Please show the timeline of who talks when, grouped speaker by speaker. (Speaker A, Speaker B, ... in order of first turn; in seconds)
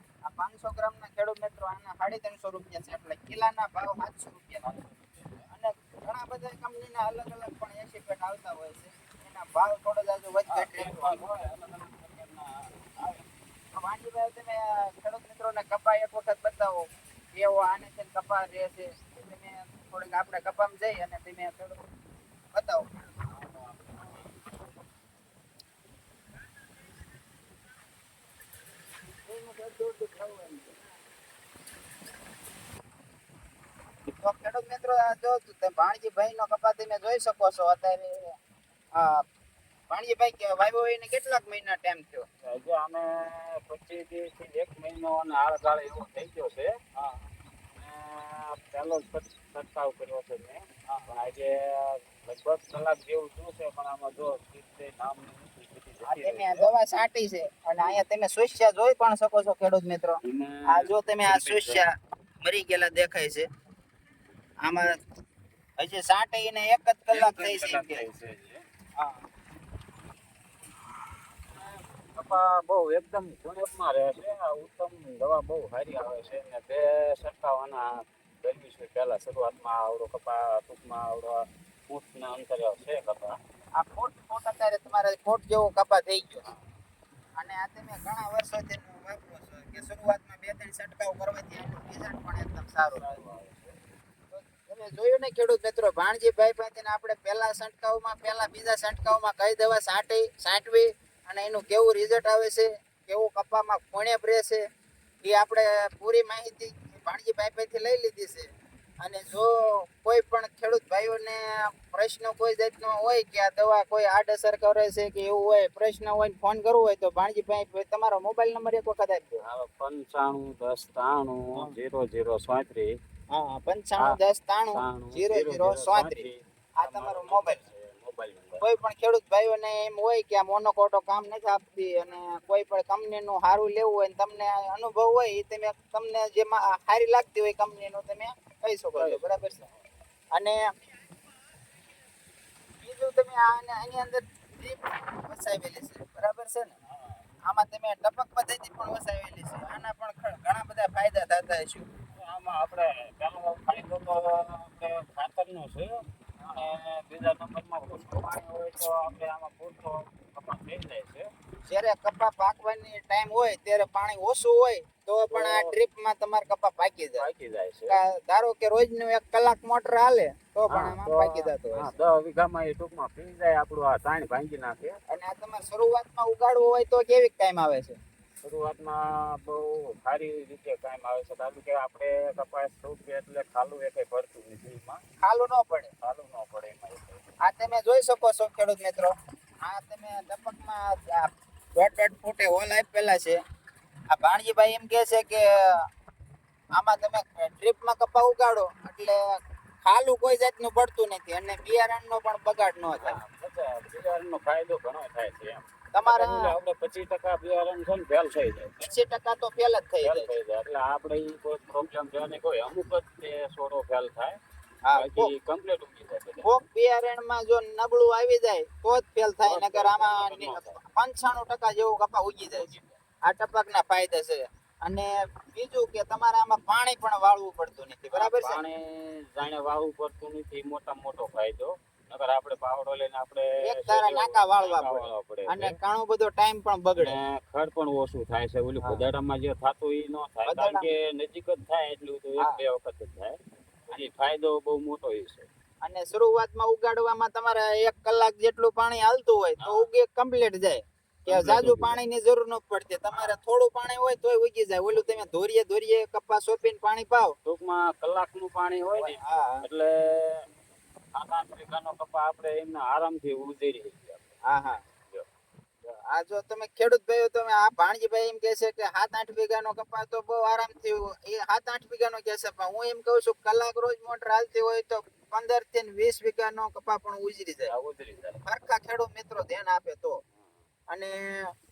Speaker A: 0.2-4.8, 5.5-11.2, 13.8-21.8, 22.5-22.9, 29.3-30.7, 34.1-38.2, 39.0-39.2, 39.9-42.3, 56.1-61.9, 62.4-63.5, 64.6-64.9, 65.8-68.1, 83.8-86.5, 87.4-93.2, 94.3-104.6, 105.2-119.4, 123.3-126.3, 126.8-127.6, 128.6-139.7, 140.3-140.6, 142.8-146.8, 147.5-151.9, 161.7-167.2, 167.9-171.9, 175.1-178.0, 185.2-185.9, 187.4-193.4, 194.1-195.8, 196.8-199.2, 199.8-203.2, 205.9-206.5, 208.8-210.3, 214.8-215.3, 216.4-222.7, 223.2-228.6, 233.6-237.2, 240.5-240.9, 245.8-257.4, 259.0-259.6, 264.5-264.8, 266.1-277.7, 278.4-280.2, 280.9-281.5
Speaker B: 4.6-5.5, 10.5-13.3, 23.2-24.4, 42.4-46.8, 47.7-56.7, 60.2-61.9, 67.1-68.6, 71.5-83.4, 92.9-93.8, 119.4-123.0, 124.7-128.6, 138.9-139.8, 146.9-147.2, 152.1-161.3, 165.3-165.7, 167.2-168.0, 170.7-175.0, 178.4-185.0, 186.0-187.2, 202.9-208.9, 210.0-214.4, 214.9-216.5, 219.4-220.8, 222.5-223.0, 228.1-235.8, 237.0-245.5, 249.6-249.9, 251.3-252.0, 253.1-253.4, 254.9-255.3, 257.4-260.5, 261.1-264.3, 277.7-278.4, 280.4-280.6